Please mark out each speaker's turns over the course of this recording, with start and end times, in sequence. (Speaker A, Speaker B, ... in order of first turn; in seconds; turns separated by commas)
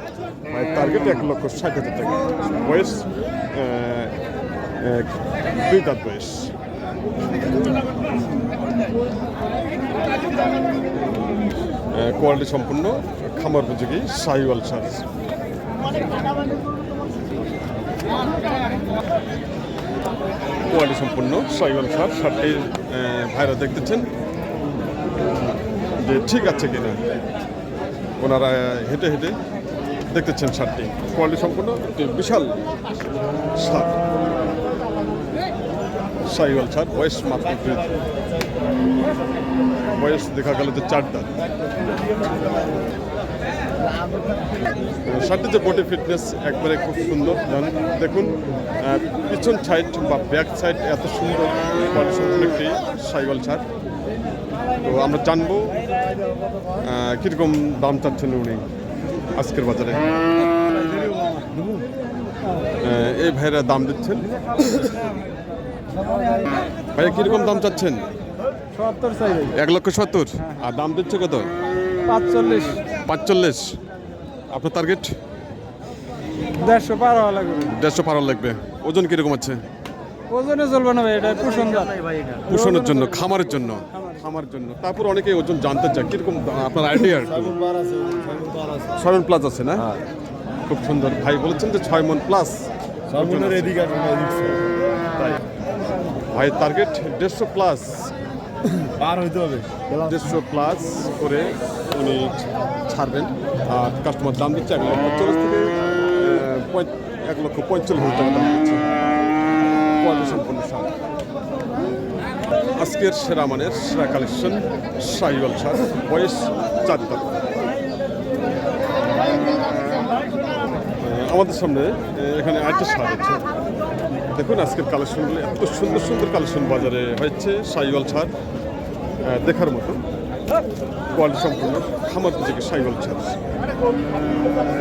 Speaker A: 0.5-4.1, Speaker A: 4.8-6.5, Speaker A: 11.9-15.1, Speaker A: 20.7-24.1, Speaker A: 26.0-27.0, Speaker A: 28.2-29.4, Speaker A: 30.1-32.6, Speaker A: 33.5-34.0, Speaker A: 36.2-38.0, Speaker A: 39.9-41.3, Speaker A: 45.0-53.6, Speaker A: 54.8-55.8, Speaker A: 56.8-58.6, Speaker A: 59.4-60.1, Speaker B: 61.3-61.7, Speaker A: 62.8-64.7, Speaker C: 66.1-66.5, Speaker A: 66.9-68.0, Speaker C: 68.7-69.5, Speaker A: 69.5-71.5, Speaker C: 72.1-72.8, Speaker A: 73.0-73.8, Speaker A: 74.5-75.1, Speaker C: 76.6-77.7, Speaker A: 77.6-79.6, Speaker C: 80.3-81.9, Speaker B: 81.2-82.5, Speaker A: 82.5-87.5, Speaker C: 82.5-82.9, Speaker B: 87.1-88.9, Speaker A: 89.0-89.9, Speaker A: 90.7-93.8, Speaker B: 93.1-94.7, Speaker A: 95.1-95.4, Speaker A: 96.3-98.1, Speaker B: 98.8-100.1, Speaker A: 100.0-108.8, Speaker A: 109.9-110.9, Speaker A: 112.8-117.4, Speaker A: 121.0-123.4, Speaker A: 124.3-128.3, Speaker A: 129.2-130.0, Speaker A: 131.1-133.4